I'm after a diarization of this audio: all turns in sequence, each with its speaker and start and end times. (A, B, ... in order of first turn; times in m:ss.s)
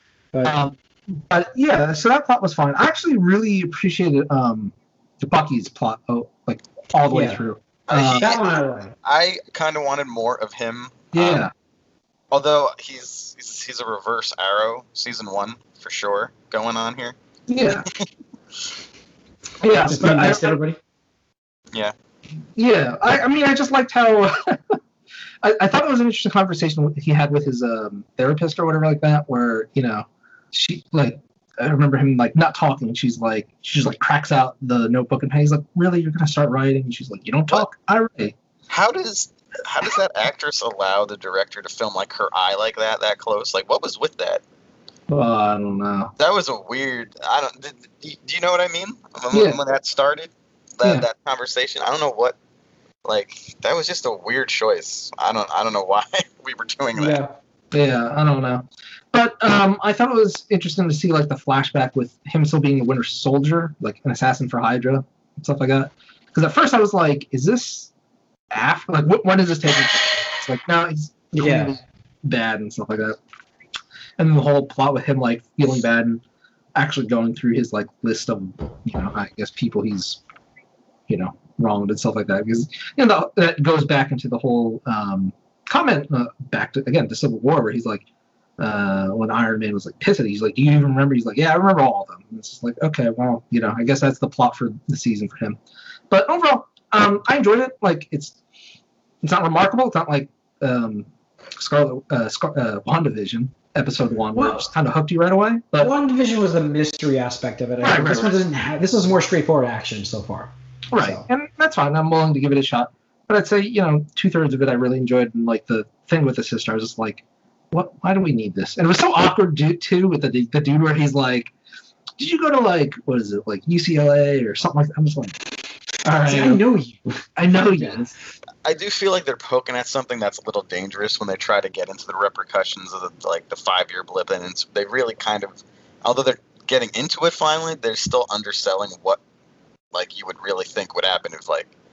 0:00.4-0:08.4 A
0:07.1-0:07.4 B
0:07.9-0:08.4 C
0:08.2-0:08.9 B
0:09.0-0:11.5 C
0:11.1-0:11.5 A
0:12.3-0:17.2 C
0:17.5-0:17.9 A
0:19.6-0:20.6 A
0:19.9-0:20.8 B
0:22.6-0:24.8 A
0:25.4-0:38.3 A
0:38.7-0:44.4 C
0:45.1-0:46.1 A
0:46.2-0:52.4 C
0:49.3-0:49.6 A
0:53.0-0:57.2 C
0:57.0-0:57.3 B
0:57.7-1:07.9 A
1:08.5-1:13.2 A
1:11.3-1:11.8 B
1:14.2-1:16.2 A
1:16.7-1:20.2 A
1:21.1-1:28.0 A
1:28.6-1:35.6 A
1:36.1-1:38.4 A
1:39.2-1:45.9 A
1:44.3-1:44.7 B
1:45.8-1:51.3 B
1:47.8-1:48.4 A
1:50.9-2:01.5 A
2:02.2-2:05.5 A
2:06.0-2:06.6 A
2:06.2-2:07.2 B
2:07.4-2:08.1 A
2:07.8-2:08.0 B
2:08.6-2:19.2 C
2:19.9-2:21.7 C